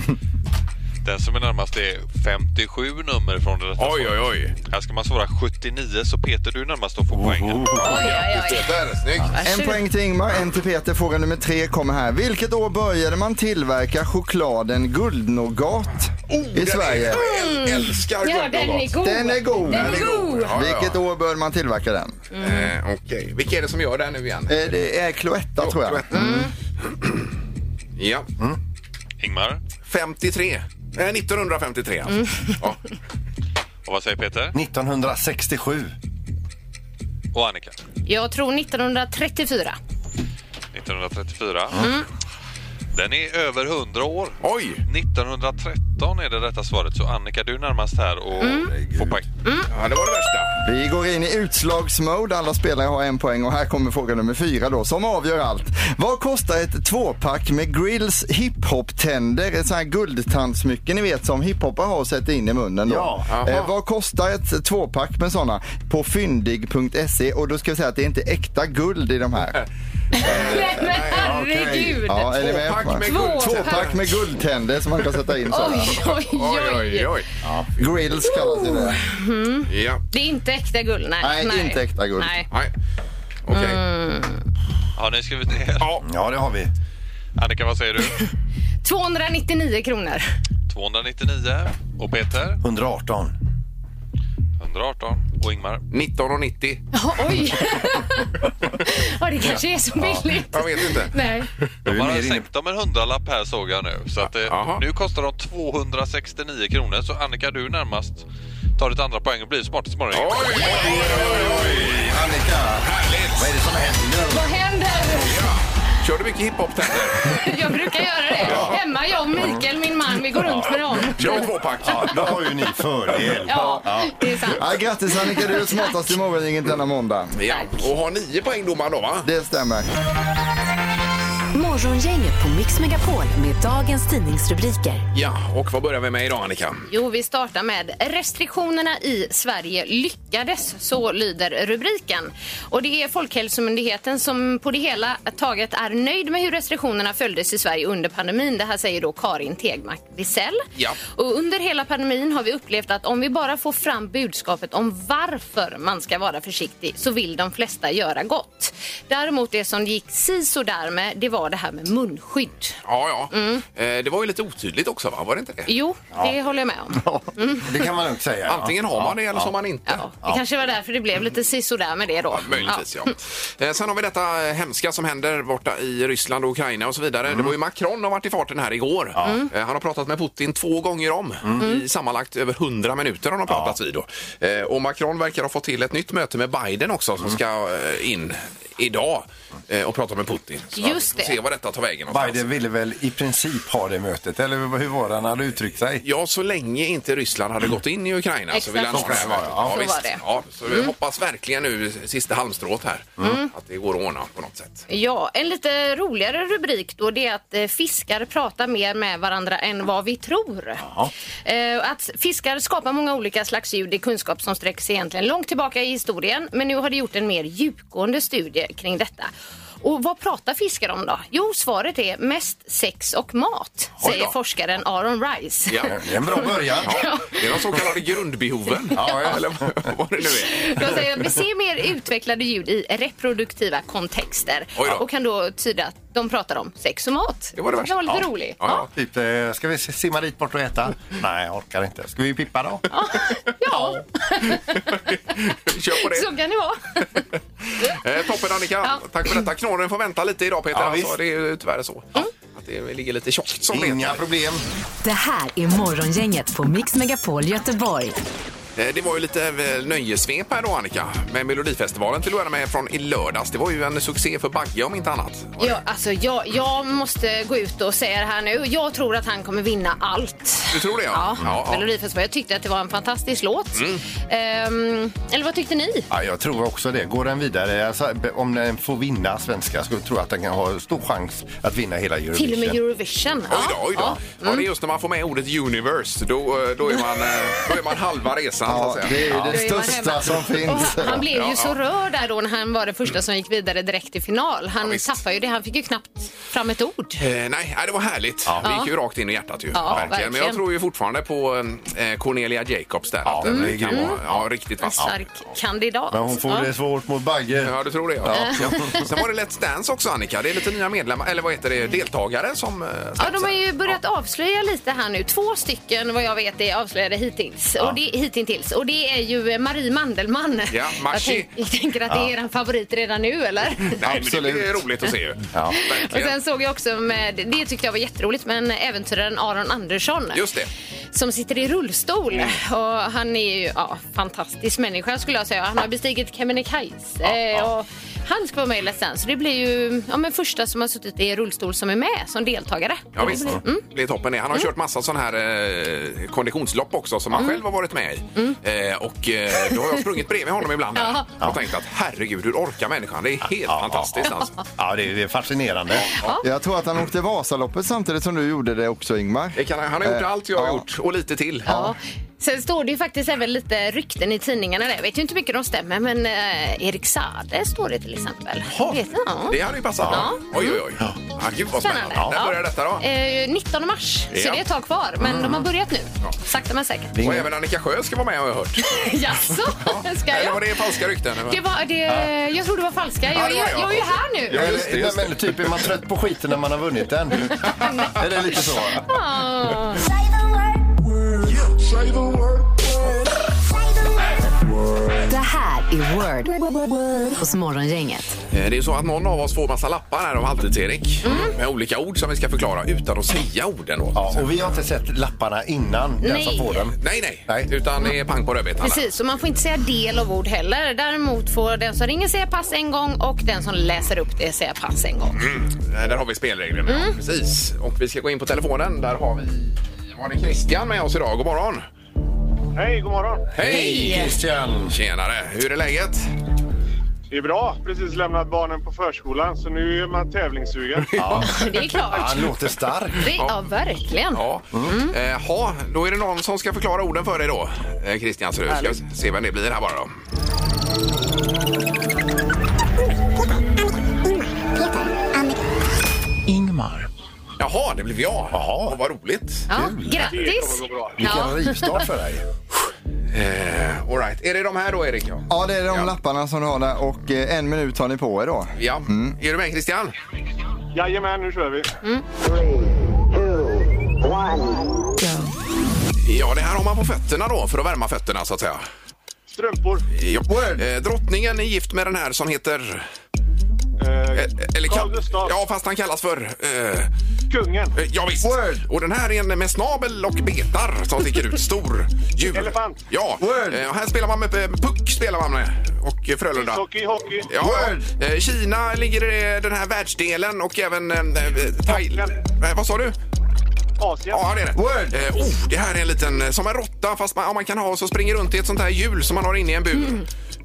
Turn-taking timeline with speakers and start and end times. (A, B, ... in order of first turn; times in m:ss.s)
0:01.0-0:07.9 A
0:03.8-0:04.6 B
0:07.1-0:08.2 C
0:07.8-0:09.8 D
0:07.9-0:09.3 B
0:09.4-0:17.3 E
0:16.3-0:19.0 B
0:17.2-0:20.5 D
0:19.0-0:22.2 E
0:19.7-0:21.0 B
0:22.3-0:22.7 D
0:22.4-0:24.6 B
0:24.5-0:26.3 E
0:25.6-0:27.3 B
0:26.1-0:26.5 D
0:28.0-0:28.3 B
0:29.2-0:29.6 A
0:29.9-0:32.8 B
0:33.8-0:34.6 A
0:34.5-0:35.9 C
0:37.3-0:37.8 A
0:38.1-0:39.8 D
0:40.7-0:41.9 A
0:41.8-0:42.1 D
0:42.9-0:49.3 A
0:44.4-0:44.8 B
0:48.4-0:48.7 D
0:48.5-0:49.2 C
0:49.7-0:50.6 B
0:50.6-1:09.6 E
1:02.9-1:03.4 C
1:03.3-1:03.6 B
1:10.1-1:13.9 D
1:10.2-1:10.8 E
1:10.2-1:11.3 B
1:11.1-1:12.0 C
1:12.0-1:16.0 E
1:12.4-1:14.1 B
1:15.5-1:17.1 D
1:15.7-1:17.3 B
1:17.4-1:17.7 C
1:17.8-1:19.0 E
1:18.3-1:22.5 D
1:19.7-1:20.0 B
1:21.2-1:22.4 E
1:23.5-1:23.8 B
1:23.5-1:24.4 D
1:25.0-1:26.0 A
1:26.0-1:26.7 C
1:27.4-1:28.3 A
1:28.8-1:30.3 D
1:30.7-1:32.6 A
1:32.6-1:33.4 C
1:34.6-1:35.8 A
1:35.9-1:36.8 B
1:36.9-1:41.5 D
1:39.5-1:40.2 C
1:40.5-1:41.2 B
1:41.9-1:42.5 C
1:41.9-1:48.2 A
1:44.2-1:44.8 B
1:48.8-1:50.7 A
1:50.1-1:52.1 B
1:50.6-1:54.5 C
1:50.8-1:51.1 D
1:52.8-1:53.5 B
1:54.3-1:55.5 D
1:55.2-1:57.4 B
1:57.2-2:01.5 D
1:58.4-1:58.8 B
1:58.4-1:58.8 C
1:59.3-1:59.6 C
2:01.0-2:02.6 B
2:01.8-2:04.2 C
2:03.5-2:06.2 D
2:04.6-2:07.4 E
2:07.4-2:09.3 B
2:09.2-2:09.9 E
2:11.5-2:15.0 F
2:15.1-2:16.9 B
2:16.9-2:42.8 D
2:42.8-2:45.7 B
2:43.3-2:43.6 D
2:45.7-2:47.8 D
2:47.0-2:49.5 C
2:48.5-2:50.0 B
2:49.9-2:53.1 D
2:52.3-3:12.4 B
2:59.2-2:59.4 C
3:03.5-3:03.8 C
3:10.8-3:11.4 D
3:12.1-3:16.0 C
3:16.0-3:24.9 B
3:18.5-3:20.9 D
3:18.9-3:19.8 C
3:23.2-3:23.5 D
3:24.9-3:30.9 D
3:30.8-3:31.1 C
3:31.4-3:39.3 D
3:39.8-3:47.5 D
3:44.0-3:44.3 B
3:45.7-3:46.0 B
3:45.9-3:47.1 C
3:46.8-3:51.0 B
3:48.9-3:49.9 C
3:50.2-3:58.9 D
3:54.8-3:55.0 B
3:57.6-3:58.9 B
3:58.9-4:02.9 C
4:02.9-4:05.1 D
4:03.7-4:04.0 C
4:04.7-4:06.3 B
4:06.0-4:07.2 D
4:07.7-4:14.2 B
4:10.7-4:11.2 C
4:13.7-4:14.6 C
4:15.0-4:18.2 F
4:18.8-4:25.8 B
4:25.6-4:36.1 D
4:30.7-4:31.8 B
4:33.8-4:34.0 B
4:36.1-4:42.8 C
4:42.4-4:44.7 D
4:43.5-4:49.3 B
4:48.6-4:51.2 E
4:49.3-4:49.6 C
4:49.5-4:57.2 D
4:51.3-4:51.8 B
4:54.8-4:55.1 B
4:57.2-5:05.1 B
4:58.6-4:58.9 D
4:59.7-5:00.6 D
4:59.9-5:00.1 C
5:03.2-5:04.5 C
5:03.4-5:04.2 D
5:04.8-5:06.7 D
5:06.1-5:09.1 C
5:07.6-5:13.6 B
5:08.3-5:09.1 D
5:13.2-5:24.0 D
5:20.7-5:21.5 B
5:24.0-5:26.4 B
5:24.1-5:24.7 E
5:25.7-5:30.4 D
5:30.3-5:30.7 B
5:31.1-5:43.8 D
5:37.2-5:37.7 B
5:43.2-5:54.6 B
5:43.2-5:43.6 C
5:51.0-5:51.3 D
5:53.7-5:56.1 C
5:56.0-5:56.4 B
5:56.1-5:56.4 D
5:56.4-6:00.8 E
5:59.6-6:01.7 B
6:01.7-6:10.8 D
6:01.7-6:01.9 E
6:08.7-6:13.0 B
6:10.0-6:10.3 C
6:11.8-6:17.1 D
6:14.3-6:14.6 B
6:15.2-6:15.7 C
6:17.1-6:17.5 C
6:17.2-6:19.0 B
6:18.8-6:20.8 D
6:19.8-6:21.6 B
6:21.5-6:24.8 D
6:23.3-6:25.9 B
6:24.5-6:29.1 C
6:27.5-6:28.2 D
6:28.9-6:30.0 D
6:31.6-6:32.4 C
6:35.3-6:36.6 F
6:37.3-6:38.4 F
6:38.5-6:44.5 B
6:41.2-6:41.6 D
6:44.2-6:47.7 C
6:46.2-6:46.8 D
6:47.0-6:49.1 B
6:48.8-6:55.4 D
6:55.4-7:01.9 B
6:56.9-6:57.2 D
7:02.8-7:03.5 G
7:03.6-7:04.3 B
7:03.6-7:05.0 C
7:03.7-7:04.4 D
7:04.9-7:06.3 B
7:07.3-7:11.1 G
7:11.0-7:11.7 B
7:11.2-7:13.3 C
7:11.3-7:12.5 D
7:13.2-7:15.2 D
7:14.3-7:20.2 B
7:26.5-7:27.1 C
7:27.6-7:29.7 B
7:28.5-7:29.0 C
7:29.7-7:32.0 D
7:29.7-7:30.5 C
7:30.2-7:31.2 G
7:31.2-7:32.5 C
7:33.3-7:36.1 B
7:35.5-7:39.4 E
7:38.8-7:40.2 B
7:40.9-7:41.9 G
7:46.2-7:48.8 B
7:49.5-7:50.0 G
7:50.1-7:53.1 B
7:50.5-7:50.9 E
7:54.0-7:55.6 G
7:54.3-7:57.1 B
7:57.5-7:58.0 G
7:58.0-8:06.8 B
7:58.4-7:58.8 E
8:02.4-8:03.0 G
8:03.4-8:03.8 E
8:06.6-8:07.5 G
8:07.5-8:13.2 B
8:07.6-8:08.1 E
8:11.9-8:12.3 G
8:14.0-8:14.4 G
8:14.3-8:20.3 B
8:14.8-8:15.2 E